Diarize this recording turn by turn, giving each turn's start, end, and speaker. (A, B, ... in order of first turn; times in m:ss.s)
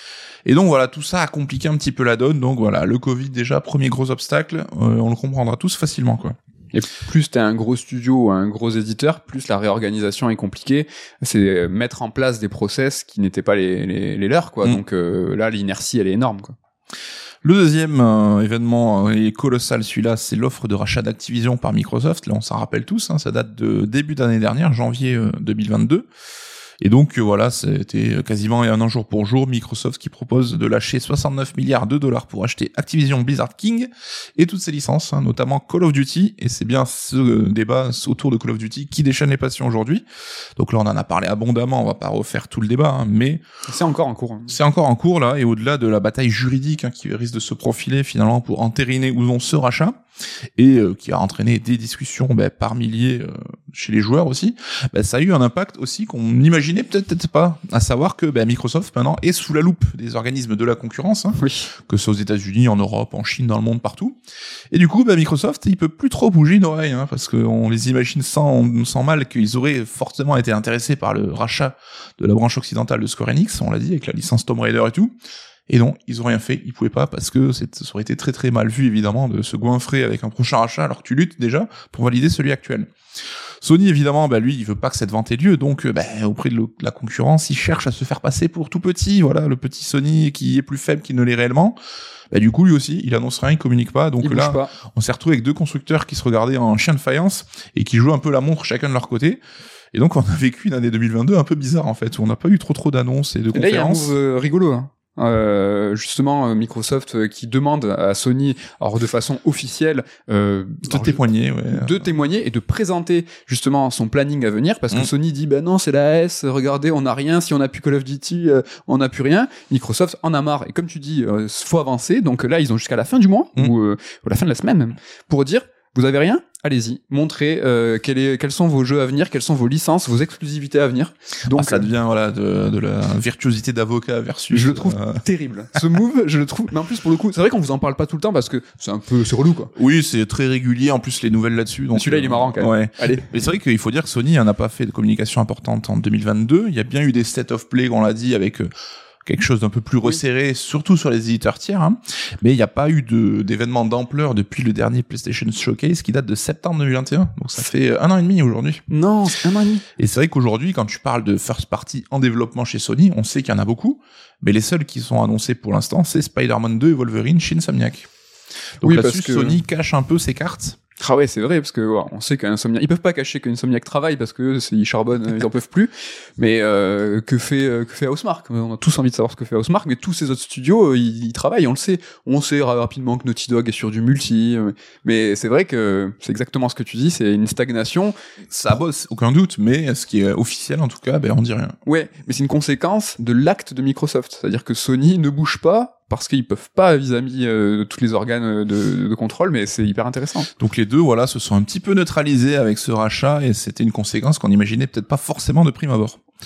0:00.5-0:06.4 A
0:06.7-0:16.6 B
0:17.4-0:26.1 A
0:26.8-0:40.0 A
0:40.6-0:43.4 A
0:43.7-0:44.6 B
0:44.5-0:50.0 A
0:50.6-1:04.2 A
1:01.4-1:01.7 B
1:04.7-1:15.1 A
1:15.7-1:22.9 A
1:23.6-1:31.8 A
1:32.3-1:39.4 A
1:34.2-1:34.7 B
1:39.9-1:44.1 A
1:43.5-2:11.9 B
1:50.9-1:52.0 A
2:11.5-2:15.2 A
2:14.5-2:19.7 B
2:19.8-2:28.7 A
2:21.9-2:23.3 B
2:29.2-2:38.8 A
2:38.9-2:39.9 B
2:40.0-2:48.1 A
2:48.8-2:50.8 A
2:48.8-2:49.6 B
2:51.0-3:08.1 B
3:08.5-3:11.8 A
3:11.9-3:20.5 B
3:20.6-3:26.3 A